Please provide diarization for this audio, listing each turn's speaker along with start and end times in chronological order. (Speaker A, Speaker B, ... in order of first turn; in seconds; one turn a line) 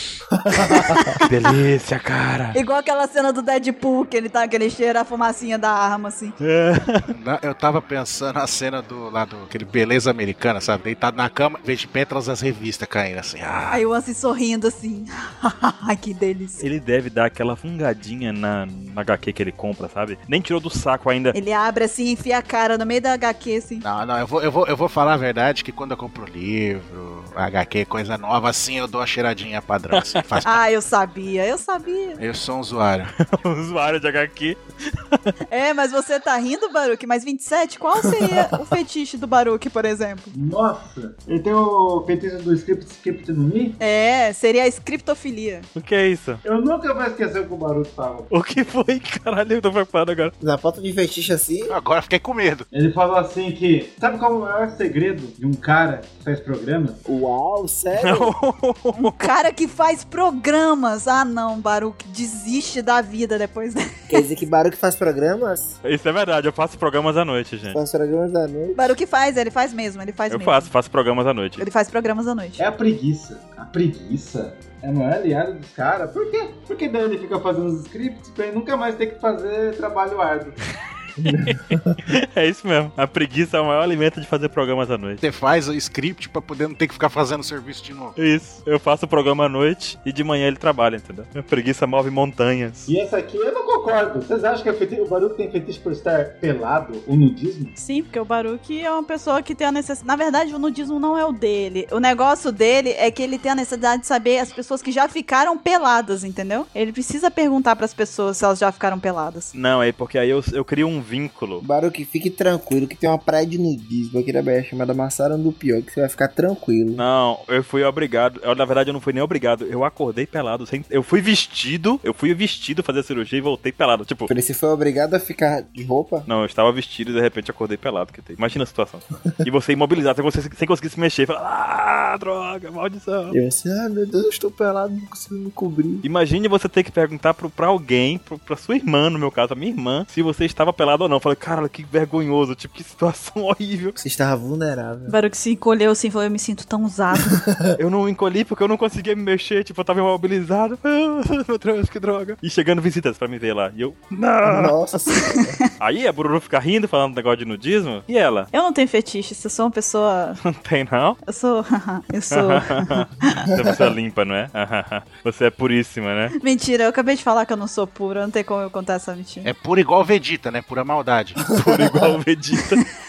Speaker A: 0.4-1.1
Speaker B: 1.0-1.2
Speaker C: 1.2-2.6
Speaker B: 2.5-6.3
Speaker C: 6.4-7.1
Speaker D: 7.1-13.8
Speaker B: 13.7-16.6
Speaker C: 16.6-21.3
Speaker B: 21.3-23.8
Speaker D: 23.8-30.6
Speaker C: 29.9-30.2
Speaker B: 30.4-32.2
Speaker D: 32.2-33.1
Speaker C: 33.2-35.3
Speaker B: 35.5-40.3
Speaker E: 40.3-43.8
Speaker B: 43.8-45.7
Speaker C: 45.8-46.4
Speaker E: 46.4-48.3
Speaker C: 48.3-50.3
Speaker A: 50.4-51.7
Speaker D: 51.7-52.7
Speaker E: 52.7-57.0
Speaker A: 57.0-58.3
Speaker C: 58.0-59.3
Speaker B: 58.9-64.2
Speaker A: 64.1-65.8
Speaker C: 65.8-67.8
Speaker A: 67.7-69.0
Speaker B: 68.7-70.7
Speaker C: 70.3-71.6
Speaker B: 71.6-72.6
Speaker E: 72.6-80.6
Speaker A: 81.2-82.0
Speaker C: 81.3-85.2
Speaker D: 85.2-88.2
Speaker C: 88.2-92.9
Speaker E: 92.9-97.7
Speaker B: 97.8-109.5
Speaker C: 109.5-111.6
Speaker A: 111.6-117.0
Speaker C: 117.0-124.3
Speaker A: 124.3-126.3
Speaker C: 126.3-133.4
Speaker A: 133.3-136.0
Speaker C: 136.0-144.0
Speaker A: 144.0-145.1
Speaker B: 145.1-147.4
Speaker A: 147.3-147.8
Speaker C: 147.8-154.8
Speaker A: 154.4-155.6
Speaker C: 155.8-158.5
Speaker B: 158.5-160.4
Speaker C: 160.4-161.2
Speaker B: 161.2-163.5
Speaker C: 162.3-166.3
Speaker B: 166.4-169.5
Speaker D: 169.4-171.4
Speaker C: 171.5-172.8
Speaker A: 171.7-172.0